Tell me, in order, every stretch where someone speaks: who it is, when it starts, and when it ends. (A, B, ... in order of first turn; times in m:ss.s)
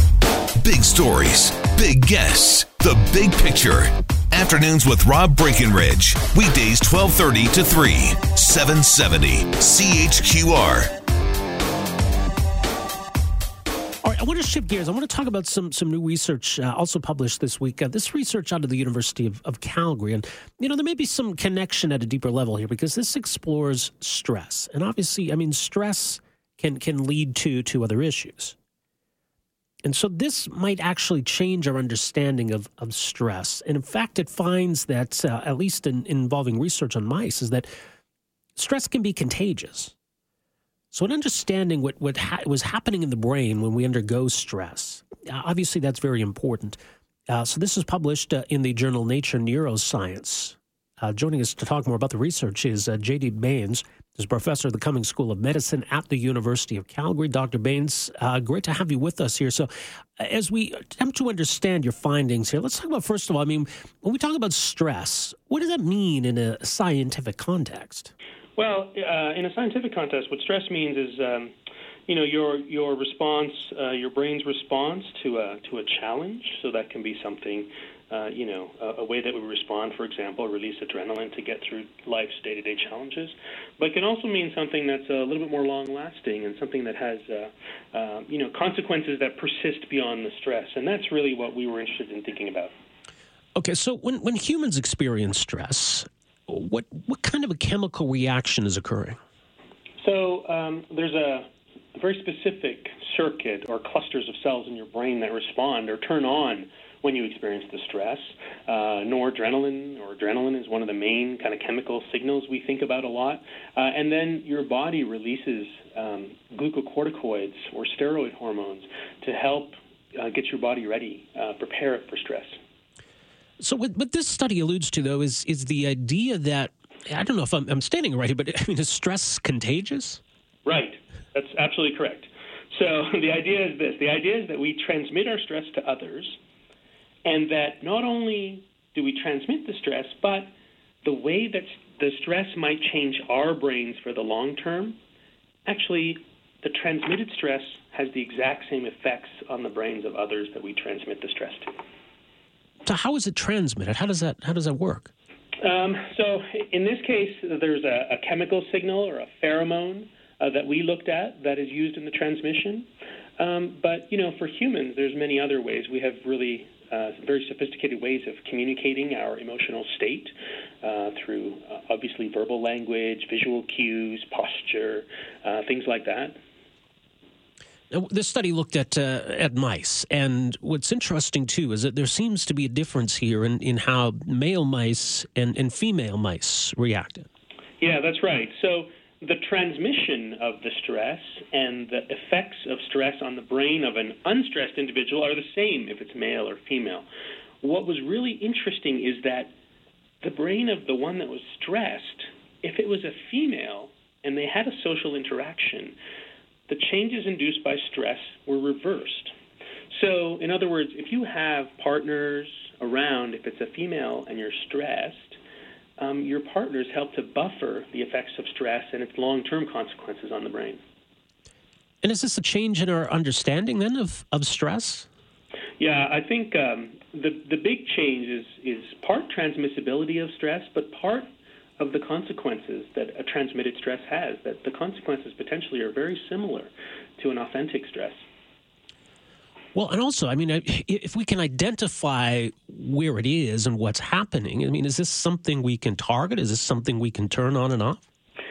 0:00.6-0:10.9 A
0:14.0-0:28.6 B
0:29.8-0:37.7 B
0:38.6-0:39.9 B
0:40.9-0:46.8 B
0:47.3-1:08.1 B
1:08.6-1:11.5 C
1:12.1-1:32.7 C
1:33.6-1:39.2 B
1:40.0-2:02.6 C
2:03.6-2:10.2 B
2:10.6-2:16.4 C
2:17.2-2:20.5 C
2:21.0-2:25.0 C
2:25.7-2:31.8 C
2:32.9-2:35.1 B
2:35.6-2:56.4 C
2:57.9-3:07.3 B
3:07.8-3:17.1 C
3:17.6-3:19.5 C
3:20.2-3:26.0 C
3:26.7-3:29.3 C
3:29.9-3:35.4 C
3:36.0-3:40.8 C
3:42.0-3:45.1 B
3:45.8-3:51.3 C
3:51.8-3:58.2 C
3:59.8-4:08.0 B